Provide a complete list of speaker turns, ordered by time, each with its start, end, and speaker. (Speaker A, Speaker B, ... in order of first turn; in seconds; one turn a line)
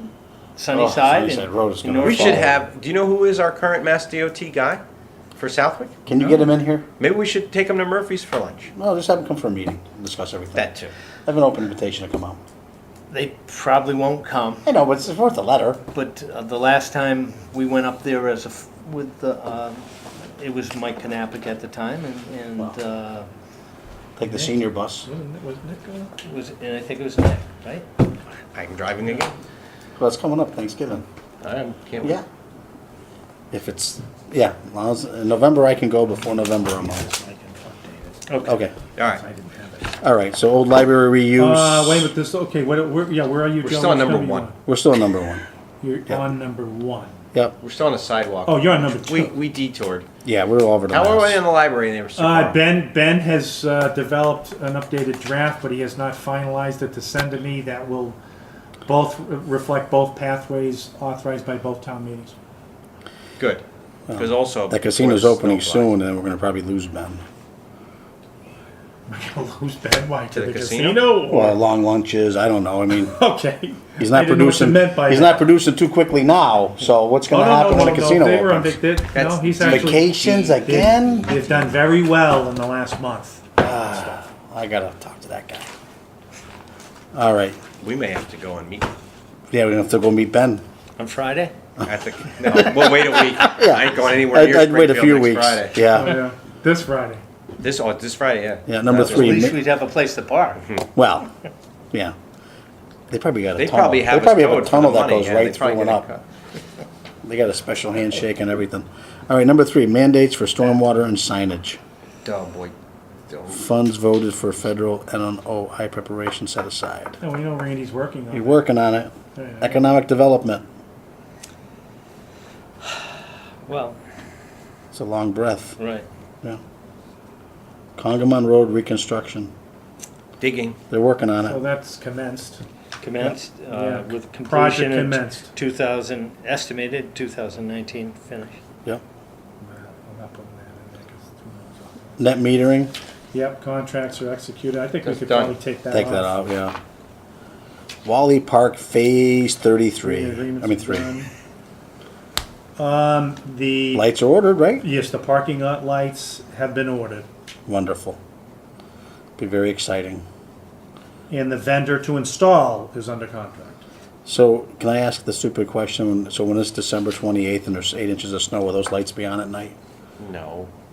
Speaker A: 0.6-2.5
Speaker B: 0.7-2.6
Speaker C: 2.0-4.8
Speaker C: 5.3-5.9
Speaker B: 6.0-6.8
Speaker C: 7.0-8.7
Speaker B: 8.8-10.7
Speaker C: 10.5-10.9
Speaker B: 11.2-12.4
Speaker A: 13.1-14.6
Speaker B: 14.6-15.8
Speaker A: 15.9-23.3
Speaker B: 24.2-25.1
Speaker D: 24.3-26.1
Speaker A: 26.2-27.9
Speaker C: 28.5-29.3
Speaker B: 30.0-31.0
Speaker C: 31.4-32.2
Speaker B: 33.5-37.1
Speaker D: 36.7-38.2
Speaker A: 38.3-38.6
Speaker B: 38.5-38.7
Speaker C: 39.0-39.2
Speaker D: 39.1-39.9
Speaker B: 40.0-42.1
Speaker D: 41.4-44.5
Speaker C: 43.6-44.5
Speaker B: 44.6-45.4
Speaker D: 45.8-47.1
Speaker C: 47.6-50.1
Speaker D: 48.5-49.3
Speaker B: 50.2-51.4
Speaker C: 50.9-52.6
Speaker D: 52.1-58.2
Speaker D: 58.9-62.3
Speaker C: 63.4-65.9
Speaker B: 64.1-67.2
Speaker D: 69.1-71.6
Speaker C: 70.3-71.1
Speaker B: 71.2-73.1
Speaker D: 73.0-75.4
Speaker B: 74.0-78.8
Speaker D: 77.3-84.2
Speaker C: 79.1-80.0
Speaker B: 79.6-81.6
Speaker B: 83.6-85.7
Speaker B: 87.1-87.6
Speaker C: 87.8-88.9
Speaker B: 89.5-90.6
Speaker A: 91.0-91.5
Speaker C: 91.8-95.8
Speaker B: 92.4-96.2
Speaker D: 95.8-97.2
Speaker C: 97.6-99.5
Speaker B: 98.7-99.6
Speaker A: 98.9-100.6
Speaker B: 100.9-101.3
Speaker B: 103.1-106.0
Speaker C: 103.5-106.2
Speaker B: 107.2-111.8
Speaker C: 112.2-112.7
Speaker C: 113.3-113.7
Speaker B: 113.5-117.2
Speaker D: 117.2-118.6
Speaker B: 118.3-120.6
Speaker D: 119.3-119.8
Speaker A: 123.7-124.0
Speaker B: 124.9-125.8
Speaker A: 125.8-126.0
Speaker B: 128.0-129.5
Speaker C: 130.4-130.8
Speaker B: 130.9-131.6
Speaker D: 131.4-132.6
Speaker A: 133.0-138.6
Speaker D: 133.2-135.5
Speaker D: 139.6-142.2
Speaker B: 142.2-142.9
Speaker D: 143.3-146.3
Speaker C: 145.0-145.6
Speaker B: 145.9-146.8
Speaker B: 148.0-151.1
Speaker D: 150.0-151.3
Speaker D: 152.8-154.1
Speaker B: 153.9-154.8
Speaker D: 154.8-157.3
Speaker B: 157.7-158.2
Speaker B: 159.4-160.2
Speaker D: 161.3-163.8
Speaker B: 164.2-169.8
Speaker C: 170.2-170.7